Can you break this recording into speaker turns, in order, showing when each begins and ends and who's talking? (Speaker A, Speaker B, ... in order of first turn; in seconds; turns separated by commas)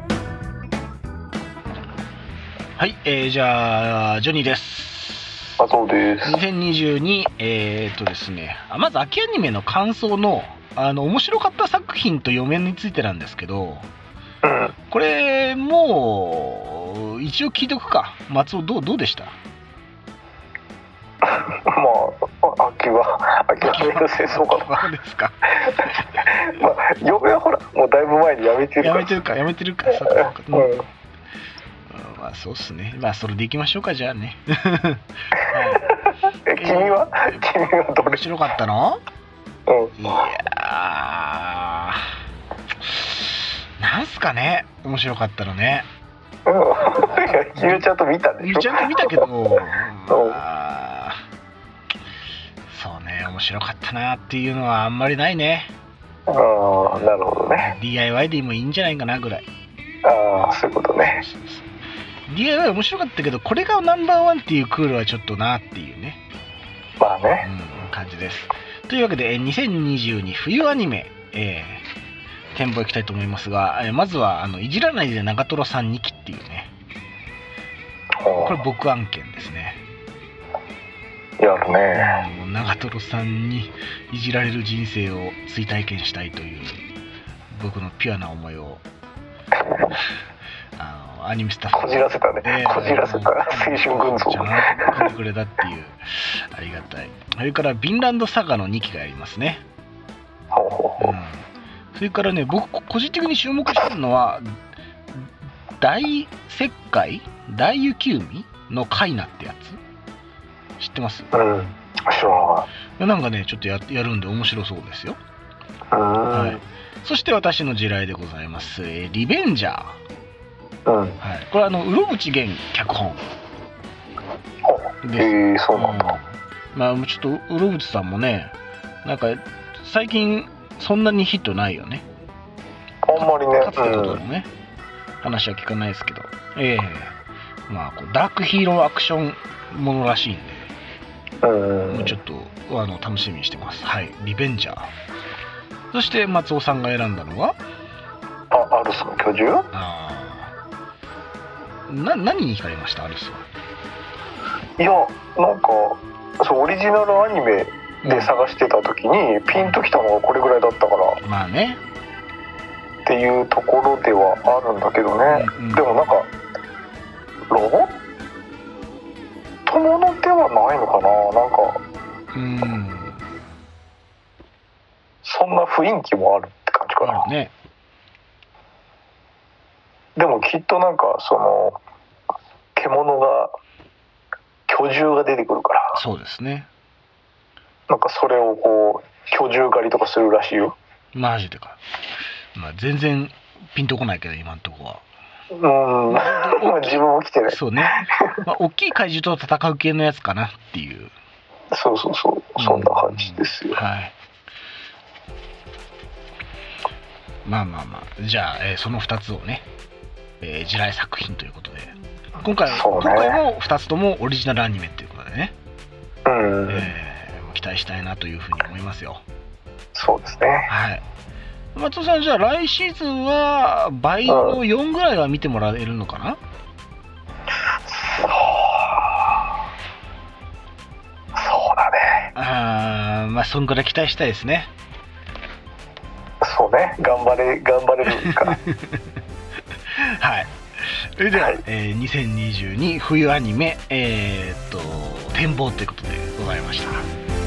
Speaker A: 2.8-5.4, Speaker B: 5.6-6.4, Speaker A: 6.2-13.9, Speaker B: 14.4-14.7, Speaker A: 14.9-19.3, Speaker B: 21.3-24.7, Speaker A: 23.6-25.4, Speaker B: 25.7-29.2, Speaker A: 28.8-30.7, Speaker B: 30.1-30.8, Speaker A: 31.9-35.8, Speaker B: 35.3-38.2, Speaker A: 36.5-37.5, Speaker A: 38.0-39.0, Speaker B: 39.7-40.2, Speaker A: 40.0-42.1, Speaker A: 42.8-45.9, Speaker B: 46.5-49.3, Speaker A: 46.9-47.9, Speaker A: 48.4-51.2, Speaker B: 50.1-50.4, Speaker A: 52.7-55.7, Speaker B: 56.3-57.8, Speaker A: 56.8-59.5, Speaker B: 60.0-61.2, Speaker A: 61.0-61.7, Speaker A: 62.3-66.2, Speaker B: 67.0-67.5, Speaker A: 67.4-71.8, Speaker A: 72.5-76.7, Speaker B: 78.2-78.6, Speaker A: 78.4-79.8, Speaker B: 81.4-82.2, Speaker A: 81.9-86.8, Speaker A: 87.5-88.8, Speaker A: 90.8-99.6, Speaker B: 91.7-95.1, Speaker B: 100.5-101.2, Speaker A: 101.0-104.4, Speaker A: 105.8-109.8, Speaker A: 110.8-111.3, Speaker B: 111.3-112.7, Speaker A: 113.0-115.2, Speaker B: 115.9-116.6, Speaker A: 116.3-120.0, Speaker B: 120.8-121.2, Speaker A: 121.2-123.2, Speaker B: 124.6-126.2, Speaker A: 125.0-132.0, Speaker B: 133.1-134.2, Speaker A: 133.1-134.5, Speaker A: 135.2-137.2, Speaker A: 137.7-140.7, Speaker B: 141.4-142.2, Speaker A: 141.9-144.9, Speaker A: 145.9-147.6, Speaker B: 148.5-149.7, Speaker A: 149.7-150.5, Speaker A: 151.9-153.4, Speaker B: 154.8-161.2, Speaker A: 158.0-158.3, Speaker A: 159.5-159.8, Speaker A: 161.2-161.8, Speaker B: 163.0-166.3, Speaker A: 165.3-165.9, Speaker B: 167.5-168.0, Speaker B: 169.7-171.8, Speaker A: 172.3-173.2, Speaker B: 175.2-177.3, Speaker A: 177.0-177.5, Speaker B: 180.2-181.8, Speaker B: 182.7-183.5, Speaker B: 184.7-186.0, Speaker A: 185.9-186.7, Speaker B: 187.9-190.8, Speaker A: 191.1-191.8, Speaker A: 192.5-195.0, Speaker B: 195.5-198.4, Speaker A: 196.1-201.1, Speaker B: 201.7-203.8, Speaker A: 202.6-204.1, Speaker A: 207.4-209.6, Speaker A: 210.4-215.5, Speaker B: 212.7-213.4, Speaker B: 216.2-216.9, Speaker A: 216.7-219.2, Speaker B: 219.9-220.7, Speaker A: 220.7-221.0, Speaker A: 221.7-226.4, Speaker B: 224.2-224.6, Speaker B: 227.8-229.2, Speaker B: 231.3-232.3, Speaker A: 232.3-234.7, Speaker B: 236.4-238.6, Speaker A: 238.2-239.0, Speaker A: 239.9-247.1, Speaker B: 241.3-241.6